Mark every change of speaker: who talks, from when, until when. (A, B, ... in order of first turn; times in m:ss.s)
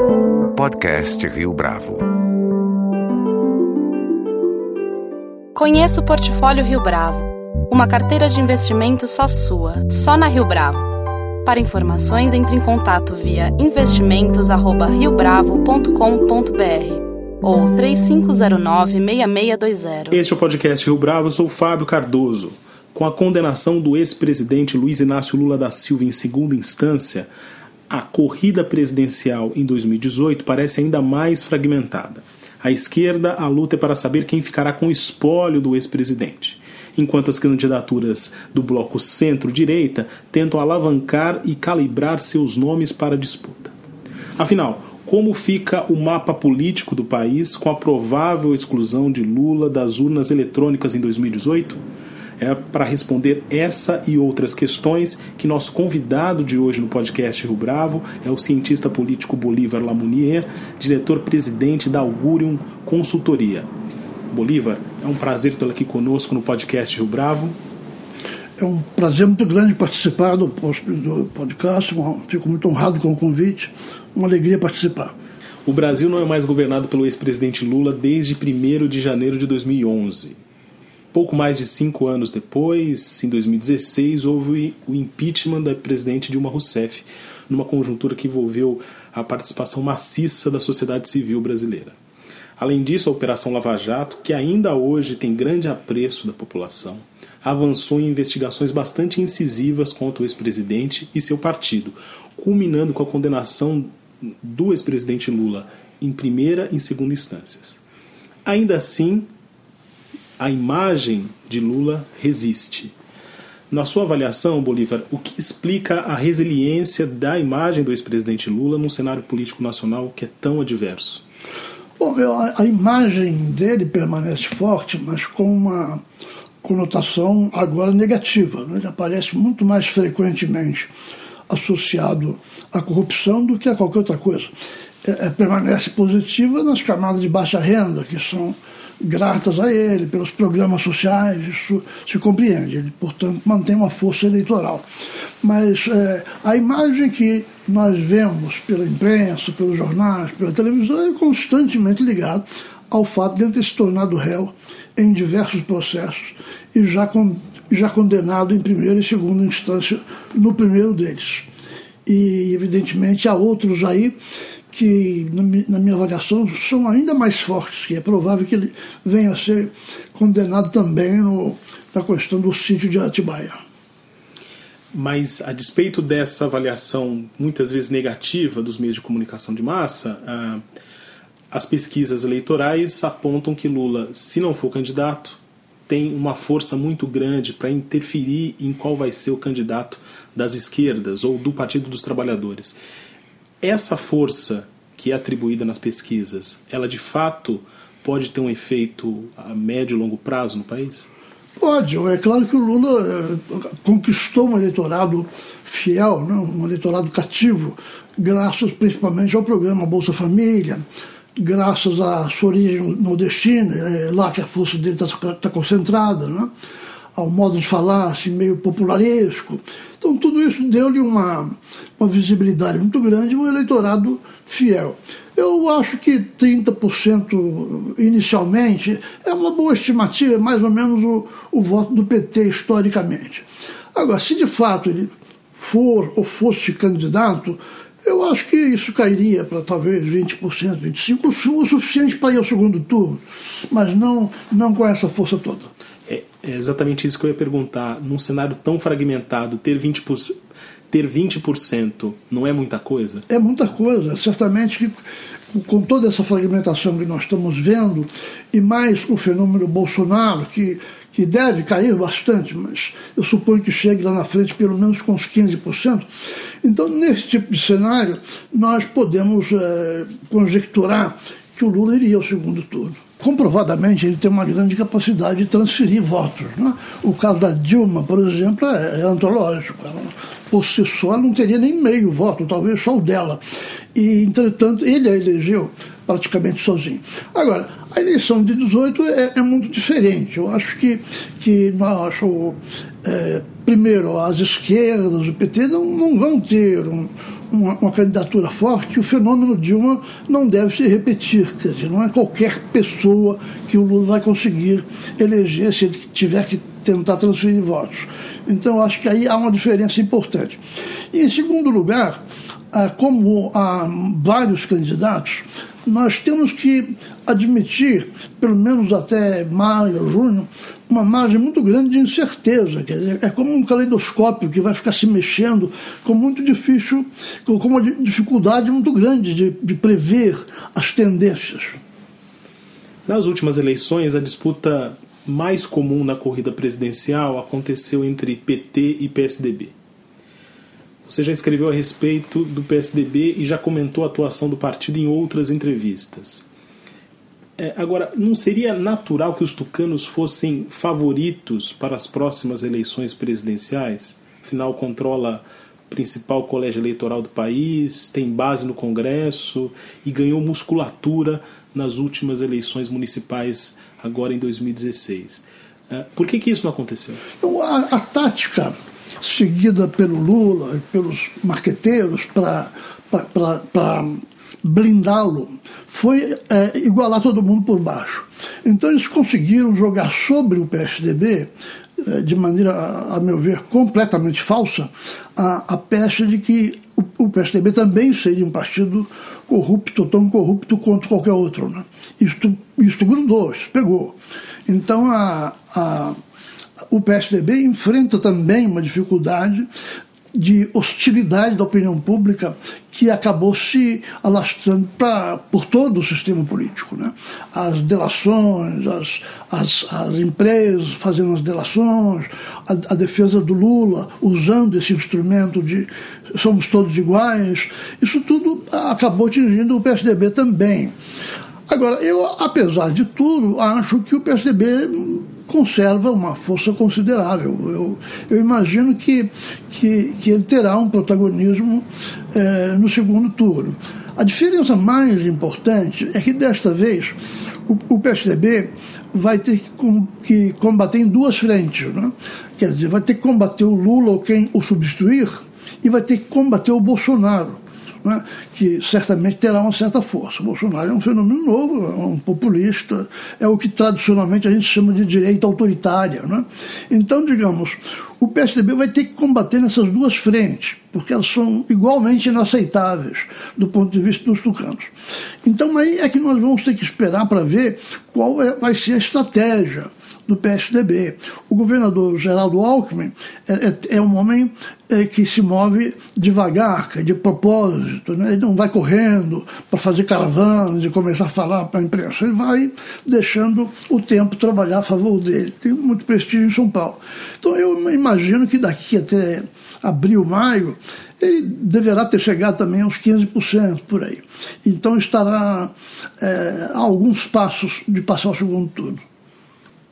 0:00.5-0:02.1 A
0:05.6-0:07.2 B
0:06.5-0:07.0 A
0:07.7-0:10.8 B
0:10.1-0:10.6 A
0:11.5-0:16.9 B
0:12.2-0:13.1 A
0:13.7-0:16.8 A
0:17.5-0:20.0 B
0:19.2-0:20.1 A
0:20.1-0:27.3 C
0:27.9-0:43.7 C
0:44.4-0:51.8 C
0:52.4-1:03.7 C
1:04.3-1:07.6 C
1:08.6-1:15.2 D
1:15.6-1:20.4 C
1:21.1-1:32.0 C
1:32.6-1:47.8 C
1:48.4-1:49.3 C
1:50.4-1:52.9 C
1:53.7-2:01.2 C
2:02.0-2:06.0 D
2:06.6-2:10.9 D
2:11.5-2:14.5 D
2:15.0-2:24.8 D
2:25.4-2:41.5 D
2:42.1-2:44.2 D
2:44.7-2:53.6 D
2:54.9-3:00.6 C
3:01.5-3:12.8 C
3:13.6-3:21.1 C
3:21.6-3:30.8 D
3:31.4-3:36.5 D
3:37.1-4:05.7 D
4:06.1-4:10.3 C
4:10.9-4:13.2 C
4:13.3-4:15.0 D
4:15.5-4:26.1 D
4:26.6-4:43.4 D
4:43.9-5:10.6 D
5:11.1-5:12.2 D
5:12.7-5:31.8 D
5:33.1-5:39.7 C
5:41.1-5:46.5 C
5:47.6-6:07.2 C
6:07.4-6:36.2 D
6:36.9-6:39.7 D
6:40.3-7:00.9 D
7:01.7-7:44.9 D
7:45.4-8:19.0 D